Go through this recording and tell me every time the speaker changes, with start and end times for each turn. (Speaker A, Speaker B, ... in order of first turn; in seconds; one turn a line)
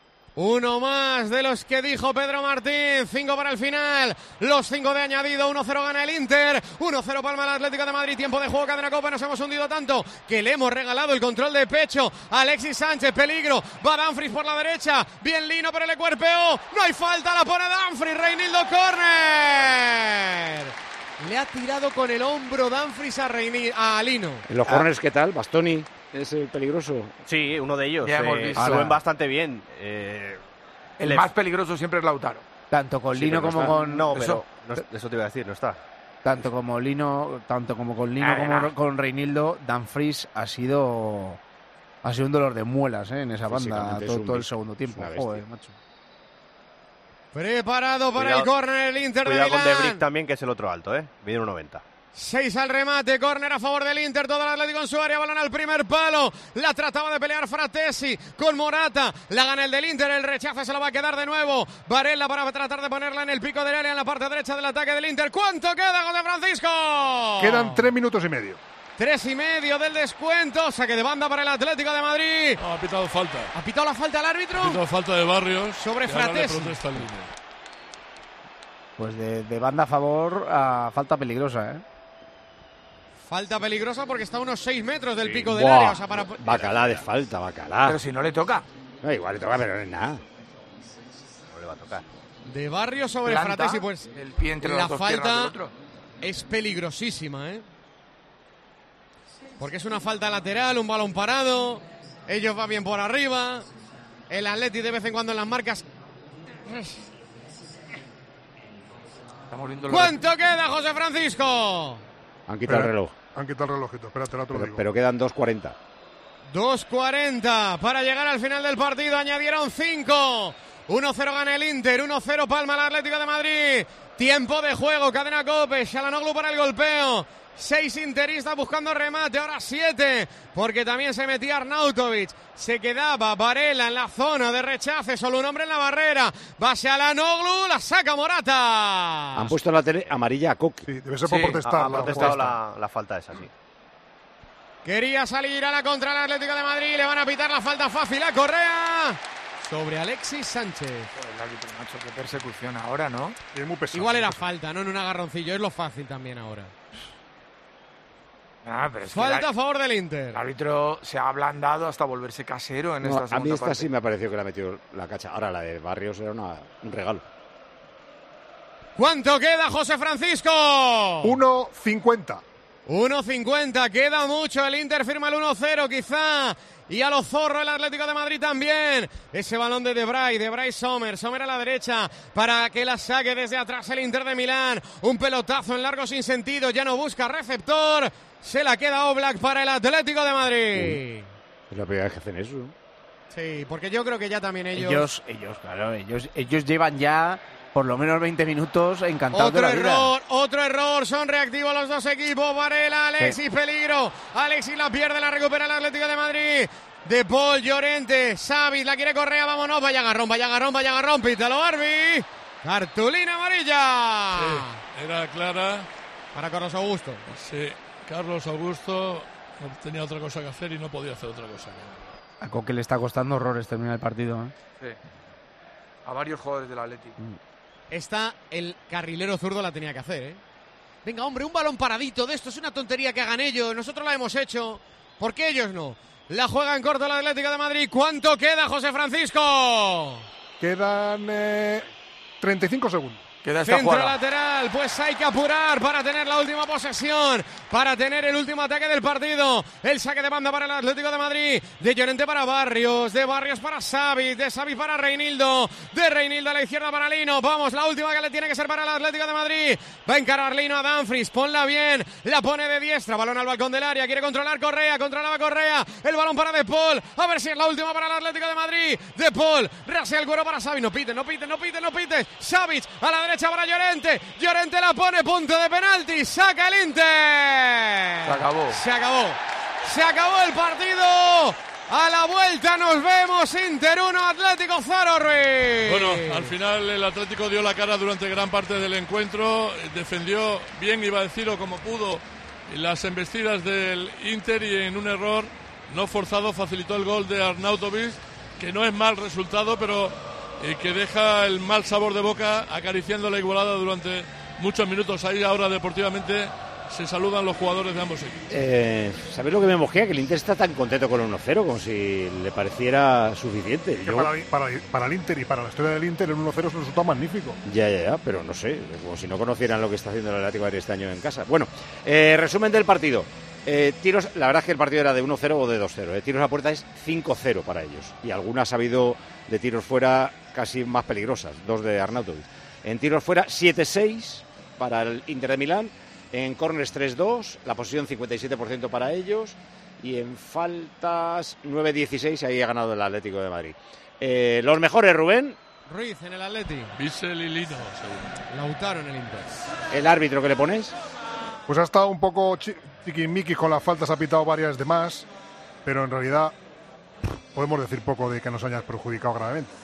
Speaker A: 0.3-24.5
Speaker B: 24.5-27.1
Speaker C: 27.2-30.4
Speaker D: 28.0-28.9
Speaker E: 28.6-29.0
Speaker D: 31.0-32.4
Speaker E: 32.7-34.1
Speaker C: 33.1-35.8
Speaker D: 34.1-34.4
Speaker E: 36.2-41.4
Speaker D: 38.2-38.7
Speaker E: 42.0-45.8
Speaker B: 43.5-45.4
Speaker A: 47.3-50.0
Speaker C: 48.2-48.5
Speaker C: 49.2-51.8
Speaker A: 52.1-67.9
Speaker F: 67.4-68.6
Speaker A: 69.0-72.6
Speaker G: 72.6-73.5
Speaker A: 73.5-74.8
Speaker G: 74.5-77.3
Speaker A: 75.8-76.8
Speaker E: 79.0-81.8
Speaker A: 83.3-86.4
Speaker B: 85.4-88.0
Speaker C: 86.4-87.0
Speaker D: 87.8-88.7
Speaker B: 89.0-90.2
Speaker C: 91.5-92.0
Speaker A: 92.5-94.1
Speaker D: 93.2-95.7
Speaker A: 94.6-95.5
Speaker A: 96.2-97.6
Speaker A: 99.6-103.7
Speaker A: 104.3-105.8
Speaker A: 106.7-107.0
Speaker D: 109.5-110.2
Speaker A: 109.9-112.0
Speaker B: 112.5-113.1
Speaker F: 112.7-114.8
Speaker B: 114.5-115.8
Speaker A: 116.5-139.5
Speaker B: 139.3-140.9
Speaker F: 140.9-142.6
Speaker D: 141.2-142.4
Speaker C: 141.6-143.5
Speaker A: 144.8-151.1
Speaker D: 151.1-153.4
Speaker F: 153.5-154.4
Speaker A: 153.9-156.7
Speaker D: 158.6-159.5
Speaker A: 159.1-160.4
Speaker D: 160.3-163.9
Speaker B: 163.0-167.2
Speaker A: 168.9-171.4
Speaker F: 171.2-172.4
Speaker A: 172.9-191.3
Speaker B: 191.7-192.7
Speaker A: 193.3-195.1
Speaker E: 194.7-200.1
Speaker A: 199.3-214.8
Speaker G: 214.3-215.9
Speaker A: 216.3-217.2
Speaker G: 217.3-222.1
Speaker E: 222.4-224.5
Speaker D: 226.0-227.2
Speaker A: 227.9-230.4
Speaker A: 231.0-240.2
Speaker F: 240.6-241.9
Speaker F: 242.4-243.2
Speaker D: 243.4-244.2
Speaker A: 243.6-286.5
Speaker D: 278.2-278.8
Speaker G: 285.8-308.5
Speaker B: 308.5-314.3
Speaker F: 314.0-317.6
Speaker B: 317.6-345.6
Speaker A: 345.9-346.9
Speaker G: 346.9-348.4
Speaker A: 348.5-349.5
Speaker B: 349.9-350.9
Speaker F: 351.7-355.3
Speaker F: 355.8-356.5
Speaker F: 357.5-359.7